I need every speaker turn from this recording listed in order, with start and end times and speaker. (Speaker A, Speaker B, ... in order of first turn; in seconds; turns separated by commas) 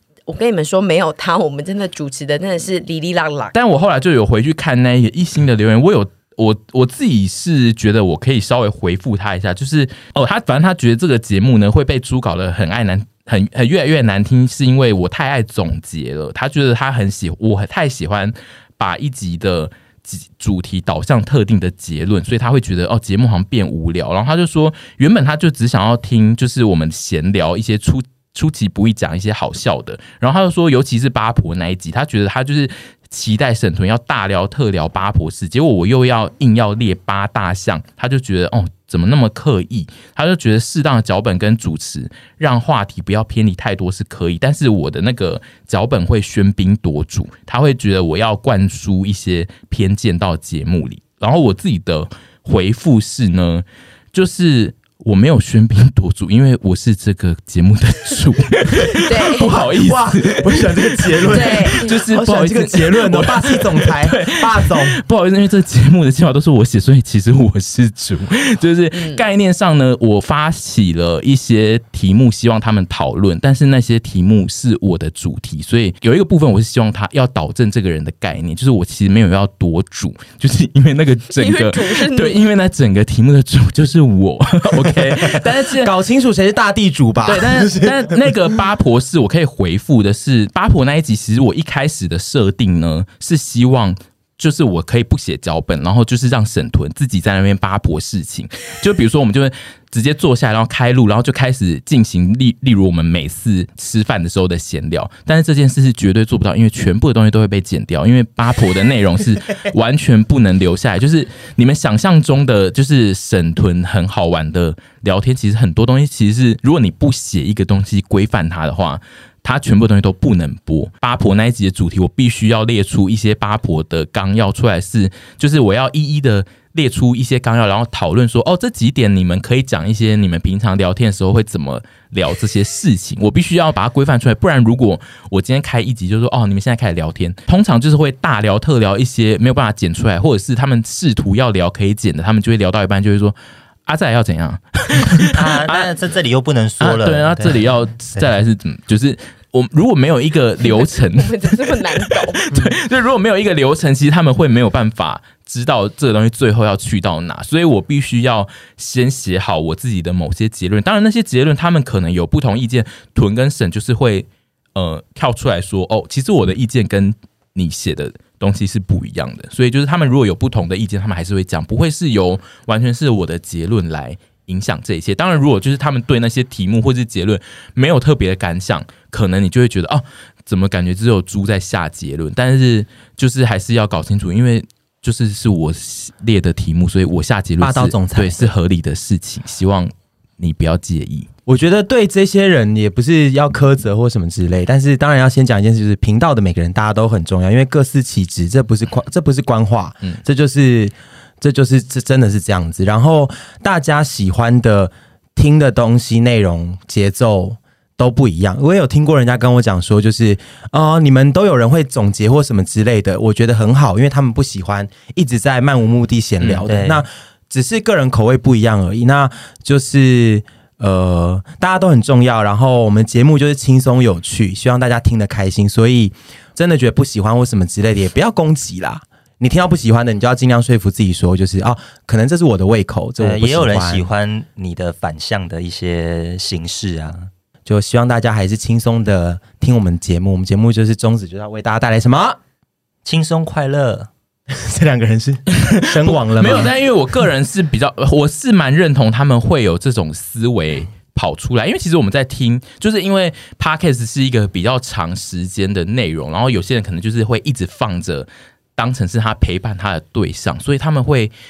Speaker A: 0.3-3.5, Speaker B: 3.5-85.9, Speaker A: 58.9-59.6, Speaker C: 59.4-65.0, Speaker A: 61.3-62.0, Speaker A: 68.9-69.2, Speaker A: 81.4-82.4, Speaker C: 84.9-88.2, Speaker B: 87.2-145.9, Speaker D: 145.3-147.7, Speaker B: 146.8-191.3, Speaker A: 150.6-152.5, Speaker C: 187.6-188.5, Speaker C: 191.5-234.1, Speaker B: 216.4-216.7, Speaker D: 216.7-217.1, Speaker D: 233.2-237.3, Speaker C: 237.7-242.4, Speaker D: 243.1-244.1, Speaker C: 244.5-246.8, Speaker B: 245.5-261.3